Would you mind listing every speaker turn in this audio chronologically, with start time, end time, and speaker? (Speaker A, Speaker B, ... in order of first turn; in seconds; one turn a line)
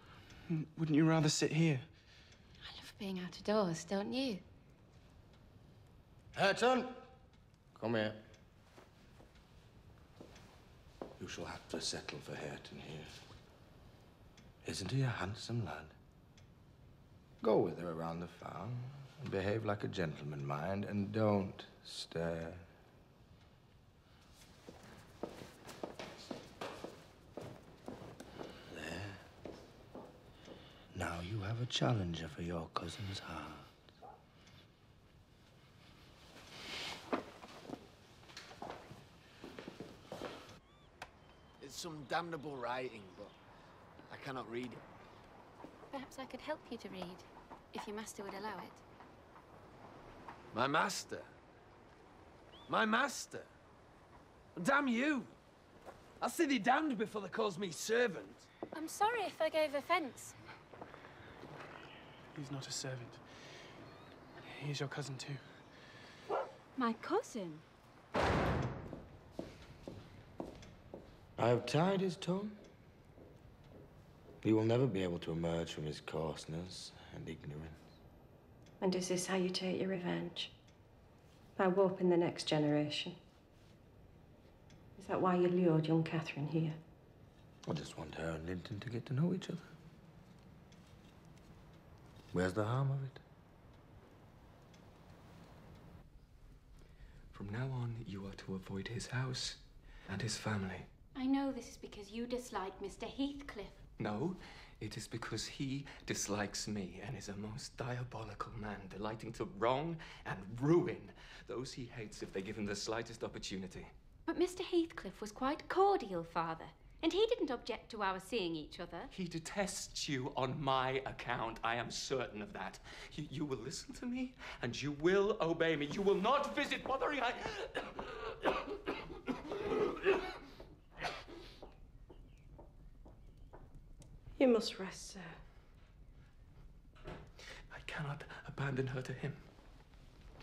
Speaker A: 0.5-1.9
Speaker B: 2.6-4.4
Speaker C: 6.3-7.0
Speaker C: 7.7-8.2
Speaker C: 11.2-13.1
Speaker C: 14.6-15.9
Speaker C: 17.4-22.6
Speaker C: 28.7-29.2
Speaker C: 30.9-33.7
Speaker D: 41.6-43.3
Speaker D: 44.1-44.9
Speaker B: 45.9-48.8
Speaker D: 50.5-51.3
Speaker D: 52.7-53.5
Speaker D: 54.5-55.3
Speaker D: 56.2-58.5
Speaker B: 58.7-60.4
Speaker A: 62.3-63.2
Speaker A: 64.4-65.4
Speaker B: 66.8-67.6
Speaker C: 71.4-72.6
Speaker C: 74.4-77.8
Speaker E: 78.8-80.5
Speaker E: 81.6-83.2
Speaker E: 85.0-86.8
Speaker C: 87.7-89.7
Speaker C: 92.3-93.2
Speaker F: 97.3-100.9
Speaker B: 101.1-103.8
Speaker F: 104.0-113.9
Speaker B: 114.3-119.1
Speaker F: 119.1-128.3
Speaker E: 134.4-135.4
Speaker F: 137.7-139.4